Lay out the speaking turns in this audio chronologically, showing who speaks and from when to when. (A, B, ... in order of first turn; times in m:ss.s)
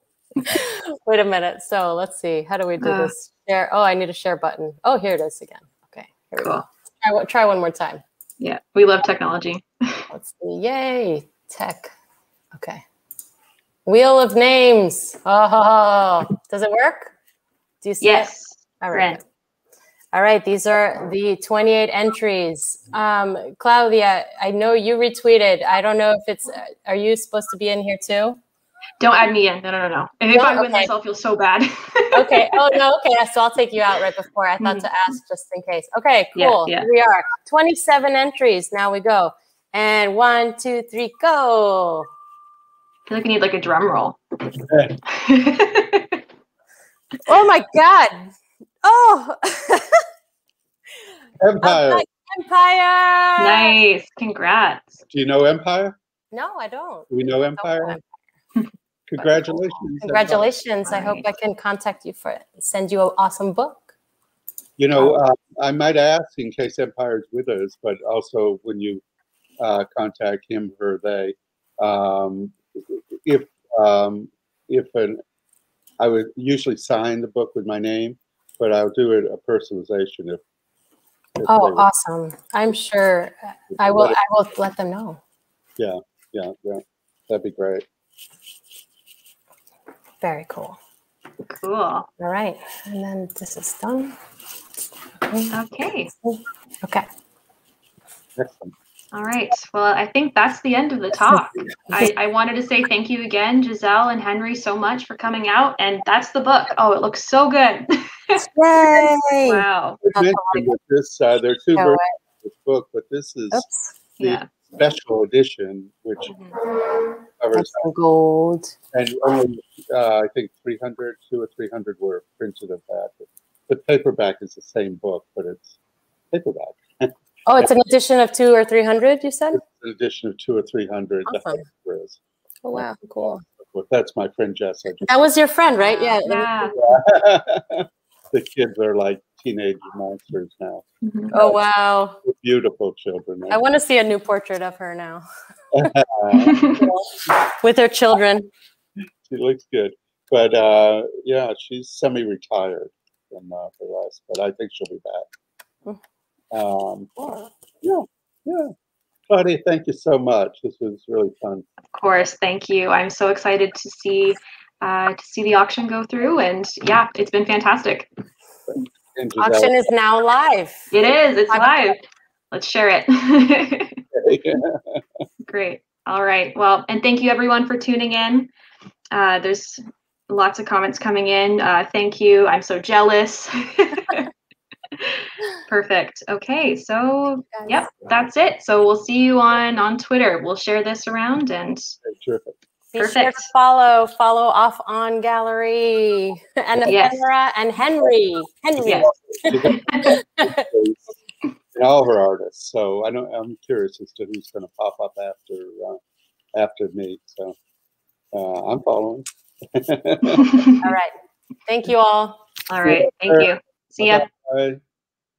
0:00.4-0:08.0 A
0:02.8-0:03.1 B
0:06.4-0:06.6 B
0:08.4-0:10.1 B
0:10.1-0:11.9 A
0:12.5-0:12.8 A
0:13.8-0:17.1 A
0:17.8-0:18.3 A
0:18.0-0:19.2 B
0:18.8-0:19.2 A
0:20.1-0:28.4 A
0:29.0-0:32.7 B
0:30.3-0:30.9 A
0:32.1-0:42.1 A
0:34.6-0:34.9 B
0:36.4-0:36.9 B
0:43.1-0:44.2 B
0:44.7-0:45.0 C
0:45.1-0:46.2 B
0:47.2-0:48.3 A
0:48.8-0:50.0 A
0:51.4-0:52.0 C
0:51.6-0:53.8 A
0:53.4-0:55.0 B
0:55.1-0:56.0 C
0:56.3-0:58.0 A
0:57.1-0:58.0 C
0:59.1-1:00.5 C
0:59.2-1:03.9 A
1:00.8-1:01.2 B
1:04.8-1:09.0 C
1:09.6-1:15.2 C
1:16.0-1:20.4 C
1:21.4-1:21.9 C
1:21.4-1:25.2 A
1:23.7-1:24.2 C
1:25.8-1:27.8 C
1:30.2-1:30.8 A
1:31.5-1:32.1 B
1:32.2-1:34.1 A
1:35.2-1:35.5 A
1:35.5-1:36.1 B
1:36.1-1:37.0 A
1:38.4-1:38.7 C
1:39.1-1:48.4 B
1:41.2-1:42.1 A
1:48.4-1:50.7 A
1:49.4-1:50.0 B
1:50.0-1:53.6 C
1:51.7-1:52.0 A
1:53.5-1:53.9 A
1:54.2-1:54.5 B
1:54.2-1:56.3 C
1:56.3-1:56.6 B
1:57.4-1:57.9 C
1:57.5-1:58.8 A
1:58.9-2:05.8 C
2:06.3-2:07.7 C
2:07.4-2:09.6 A
2:09.5-2:12.2 C
2:11.3-2:11.6 A
2:12.6-2:13.4 A
2:12.7-2:15.1 C
2:15.0-2:16.7 A
2:15.9-2:16.8 B
2:16.8-2:21.6 C
2:21.0-2:21.3 B
2:21.3-2:22.2 A
2:22.2-2:23.6 C
2:23.5-2:25.2 A
2:25.7-2:26.9 C
2:26.4-2:26.8 B
2:27.4-2:28.5 A
2:29.2-2:35.3 C
2:36.5-2:37.1 C
2:37.2-2:37.4 A
2:37.8-2:38.7 C
2:39.3-2:41.6 C
2:41.9-2:48.1 B
2:48.7-2:49.8 C
2:49.4-2:50.9 A
2:50.9-2:54.0 B
2:51.5-2:51.9 A
2:54.1-2:55.2 C
2:55.5-2:58.5 B
2:59.1-3:04.3 B
3:05.0-3:12.0 B
3:12.0-3:12.6 C
3:12.9-3:20.7 A
3:13.0-3:13.4 B
3:16.9-3:17.2 B
3:18.8-3:19.1 B
3:19.3-3:21.1 C
3:19.6-3:20.1 B
3:21.7-3:26.0 C
3:26.5-3:27.6 C
3:28.3-3:30.6 C
3:30.3-3:30.9 B
3:30.8-3:31.1 A
3:31.6-3:32.4 A
3:32.7-3:34.3 B
3:32.8-3:34.8 C